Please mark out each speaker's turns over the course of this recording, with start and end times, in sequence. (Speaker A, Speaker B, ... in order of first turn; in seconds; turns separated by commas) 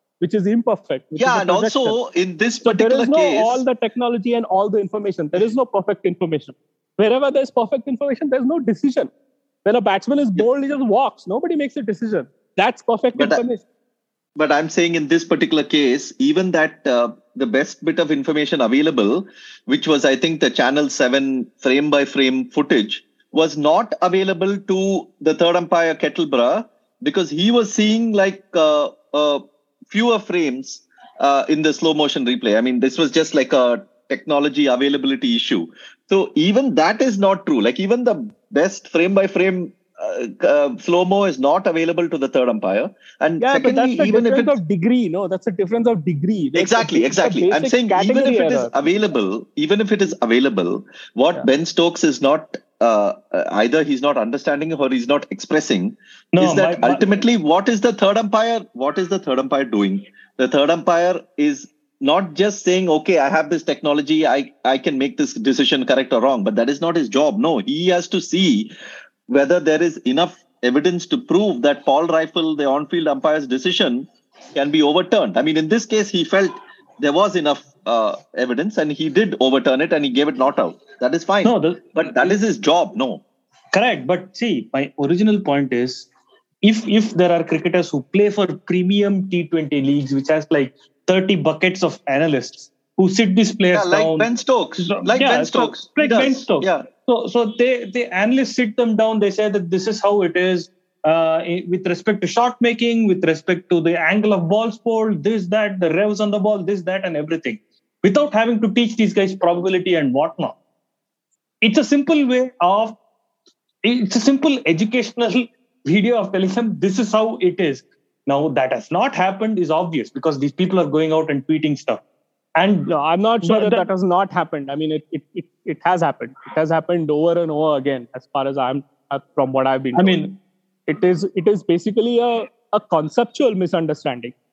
Speaker A: 0.2-2.0, Speaker B: 1.2-3.6, Speaker A: 2.6-9.1, Speaker A: 9.6-13.6, Speaker B: 13.2-13.4, Speaker B: 14.3-44.5, Speaker A: 43.4-48.7, Speaker B: 46.5-68.7, Speaker C: 56.3-57.2, Speaker B: 69.3-83.2, Speaker C: 81.4-82.4, Speaker C: 83.7-86.1, Speaker C: 86.6-110.5, Speaker B: 93.7-96.8, Speaker C: 111.6-113.0, Speaker C: 113.8-122.0, Speaker C: 122.5-122.9, Speaker A: 122.9-130.3, Speaker C: 123.4-123.9, Speaker C: 129.9-130.4, Speaker A: 130.9-134.3